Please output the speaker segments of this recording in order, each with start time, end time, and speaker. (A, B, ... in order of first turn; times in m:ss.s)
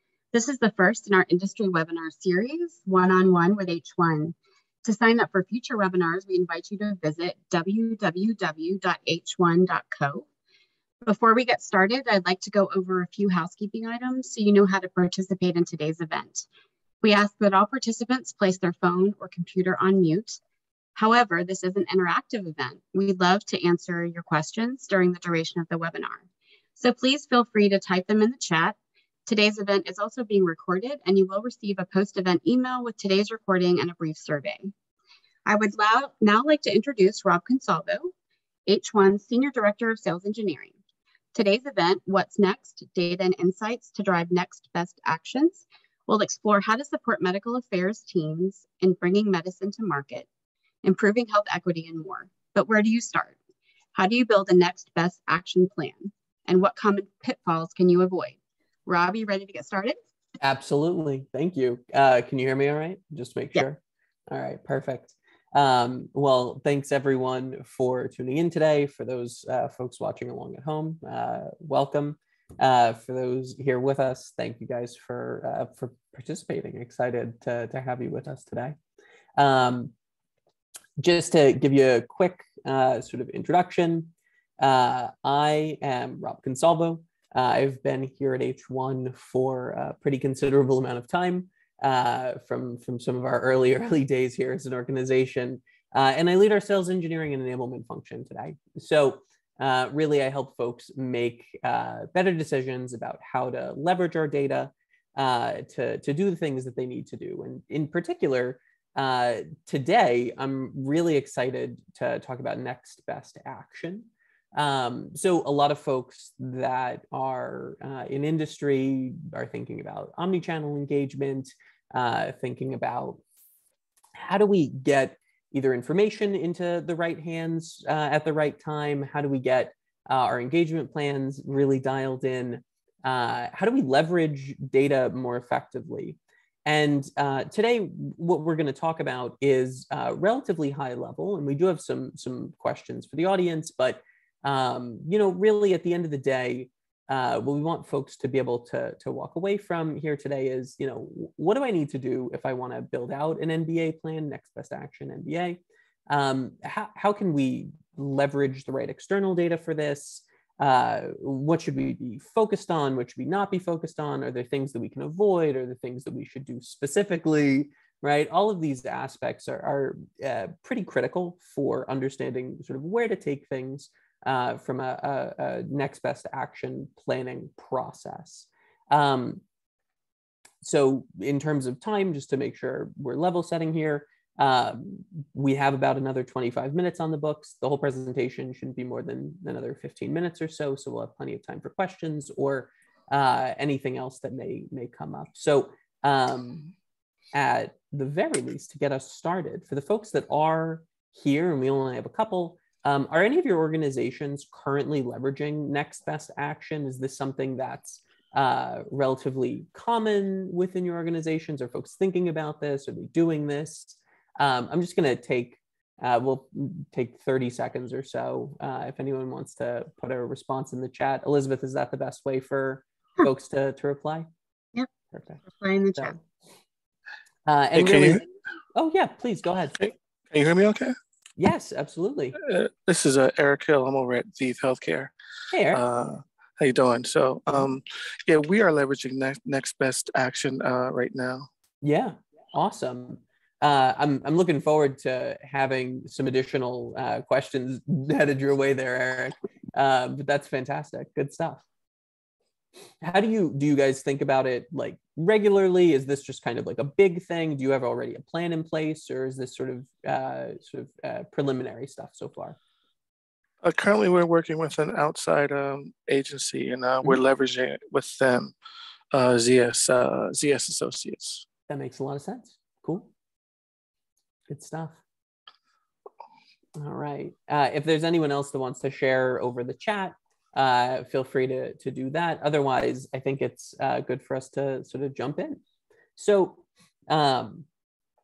0:00.3-0:10.2 A
0:11.0-0:16.5 A
0:17.0-0:20.4 A
0:21.0-0:34.7 A
0:35.4-0:38.1 A
0:38.6-0:40.7 A
0:41.3-0:50.3 A
0:50.8-0:53.4 A
0:53.9-1:00.0 A
1:00.4-1:18.8 B
1:19.4-1:19.9 B
1:21.0-2:03.2 B
2:04.2-2:59.4 B
3:00.6-3:16.7 B
3:17.3-3:44.3 B
3:45.1-3:45.4 B
3:45.4-3:46.2 A
3:47.4-3:49.8 B
3:47.8-3:48.2 C
3:49.8-3:50.9 C
3:51.4-3:52.4 B
3:52.4-3:55.1 C
3:55.5-3:55.8 B
3:55.7-4:01.5 C
4:01.8-4:11.6 B
4:13.0-4:22.6 B
4:23.6-4:28.5 C
4:29.1-4:31.4 C
4:31.7-4:33.1 B
4:34.5-4:35.0 B
4:36.8-4:45.6 B
4:46.2-4:47.6 B